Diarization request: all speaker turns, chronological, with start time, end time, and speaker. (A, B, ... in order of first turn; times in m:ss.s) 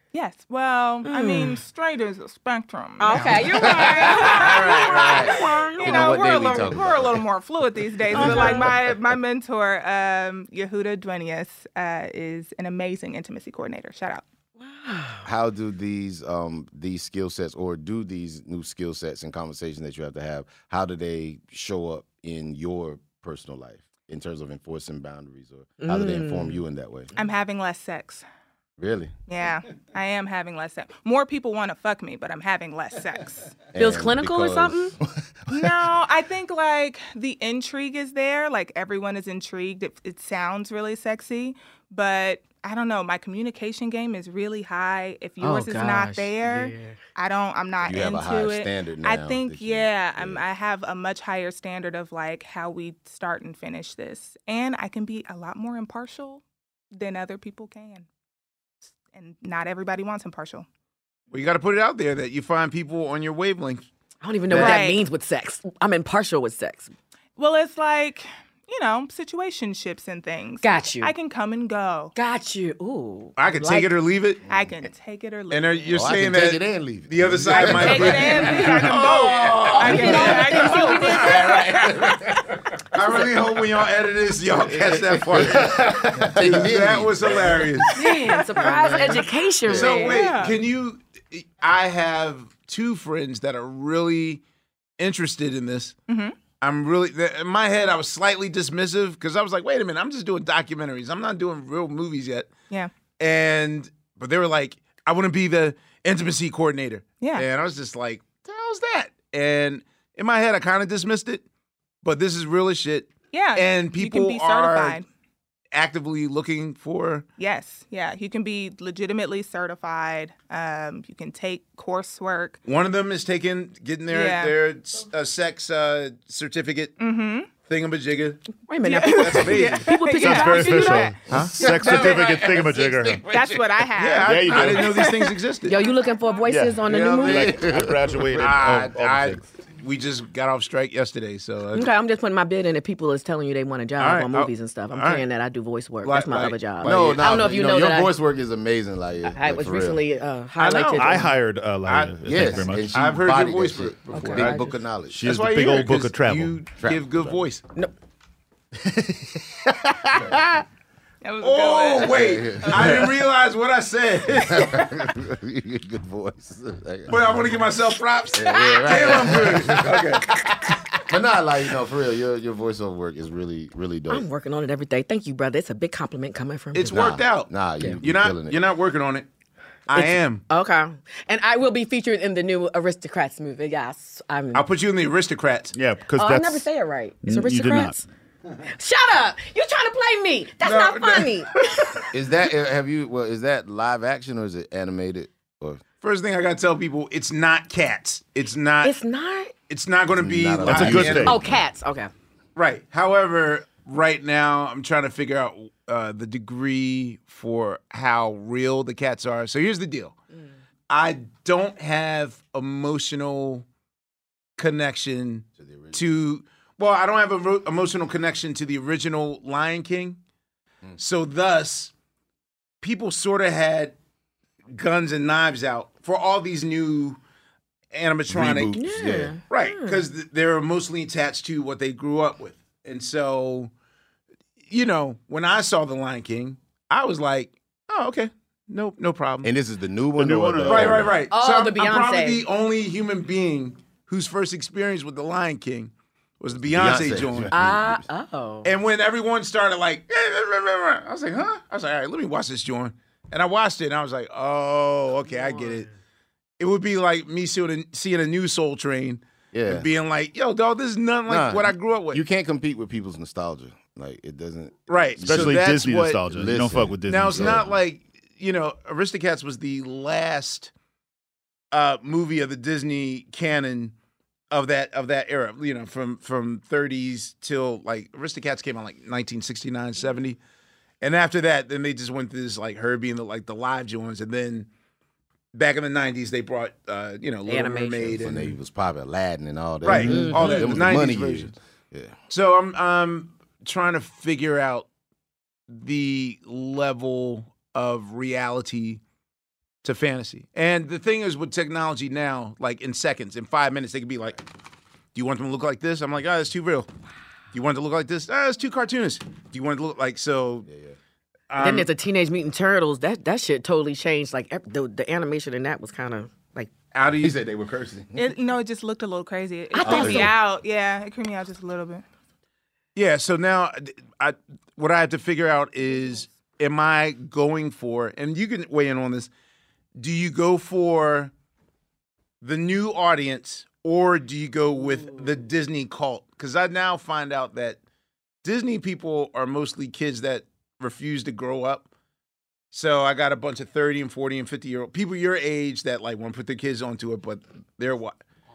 0:00.1-0:14.2 A
0:01.0-0:01.6 B
0:03.0-0:06.2 B
0:03.2-0:07.2 C
0:08.1-0:09.0 C
0:08.1-0:08.7 B
0:14.6-0:15.3 B
0:15.2-0:27.1 C
0:25.8-0:26.6 B
0:27.2-0:28.2 A
0:28.8-0:29.1 C
0:29.3-0:33.5 A
0:33.7-0:35.6 C
0:33.8-0:34.9 B
0:35.5-0:58.1 A
0:45.4-0:47.0 B
0:47.8-0:50.4 C
0:58.9-1:00.6 A
1:01.3-1:03.8 D
1:04.2-1:06.9 B
1:04.5-1:04.8 D
1:04.5-1:05.0 A
1:07.4-1:12.1 A
1:10.6-1:11.1 B
1:12.1-1:13.9 B
1:13.4-1:14.4 D
1:14.5-1:15.9 A
1:15.5-1:21.6 D
1:15.9-1:27.9 C
1:17.5-1:21.7 A
1:19.6-1:22.1 B
1:22.9-1:28.0 D
1:27.9-1:30.2 B
1:28.6-1:30.0 C
1:29.7-1:34.4 D
1:29.9-1:30.6 A
1:35.0-1:36.0 D
1:36.1-1:36.4 A
1:36.6-1:42.5 D
1:43.2-1:51.4 D
1:47.2-1:47.4 A
1:52.0-1:55.0 D
1:53.3-1:55.0 A
1:55.7-1:57.2 D
1:57.4-2:02.6 A
2:02.6-2:07.0 D
2:04.1-2:04.5 A
2:07.0-2:07.5 A
2:07.6-2:08.4 D
2:08.7-2:11.1 B
2:08.8-2:11.2 A
2:09.0-2:09.9 D
2:10.1-2:13.3 E
2:11.3-2:13.8 C
2:11.3-2:12.0 D
2:11.9-2:12.1 A
2:13.3-2:15.3 A
2:14.0-2:15.9 D
2:14.2-2:15.1 E
2:15.6-2:17.6 B
2:16.4-2:19.4 E
2:16.8-2:19.3 C
2:18.4-2:21.9 D
2:21.7-2:28.1 B
2:24.0-2:25.2 D
2:26.0-2:27.4 D
2:26.8-2:30.0 C
2:29.2-2:31.3 B
2:30.6-2:31.3 D
2:31.0-2:33.0 E
2:31.8-2:34.6 D
2:32.2-2:35.2 C
2:34.1-2:34.7 B
2:35.1-2:36.6 E
2:35.2-2:37.6 D
2:36.8-2:37.4 C
2:38.8-2:40.5 E
2:40.1-2:40.4 C
2:41.2-2:43.0 A
2:41.4-2:44.9 D
2:42.1-2:43.1 C
2:44.3-2:47.5 C
2:47.1-2:50.3 D
2:48.3-2:54.2 C
2:54.1-2:57.1 B
2:56.7-2:59.3 D
2:56.9-2:58.6 C
2:59.9-3:00.4 D
2:59.9-3:04.6 B
3:04.5-3:05.7 D
3:05.7-3:06.7 E
3:06.2-3:08.0 B
3:07.2-3:08.0 E
3:08.7-3:12.0 B
3:10.6-3:11.8 D
3:12.1-3:15.8 C
3:16.0-3:19.0 D
3:18.8-3:19.5 B
3:19.7-3:21.4 D
3:20.1-3:21.6 C
3:20.6-3:21.4 E
3:21.2-3:22.1 B
3:22.6-3:30.2 D
3:30.9-3:33.6 D
3:34.6-3:40.2 D
3:35.6-3:36.0 C
3:41.0-3:41.9 D
3:42.8-3:43.9 D
3:44.7-3:47.2 D
3:47.9-3:48.8 D
3:48.3-3:49.3 C
3:48.7-3:50.0 B
3:49.5-3:53.7 D
3:54.7-3:59.5 D
3:59.4-4:01.2 C
4:00.2-4:01.1 E
4:00.6-4:07.5 D
4:01.3-4:02.4 B
4:06.5-4:08.0 C
4:07.5-4:08.7 B
4:08.6-4:15.9 D
4:15.3-4:15.8 B
4:16.6-4:22.2 D
4:19.5-4:19.9 C
4:21.3-4:27.7 C
4:24.9-4:26.2 D
4:25.2-4:27.6 E
4:27.0-4:30.7 D
4:31.7-4:33.9 D
4:34.5-4:40.4 D
4:41.0-4:44.7 D
4:45.5-4:48.5 D
4:47.5-4:48.2 B
4:48.2-4:52.2 C
4:49.8-4:51.5 D
4:49.9-4:50.2 E
4:50.0-4:50.7 B
4:52.3-4:54.9 D
4:55.7-4:59.0 D
4:59.8-5:04.4 D
5:05.1-5:06.9 D
5:07.5-5:10.7 D
5:10.7-5:11.0 C
5:11.5-5:11.9 D
5:11.6-5:16.7 B
5:16.9-5:17.4 D
5:17.1-5:18.3 C
5:18.2-5:22.0 A
5:19.7-5:20.3 B
5:19.8-5:20.3 C
5:22.9-5:29.3 D
5:30.0-5:31.3 D
5:32.4-5:37.8 D
5:38.4-5:41.9 D
5:42.7-5:48.2 D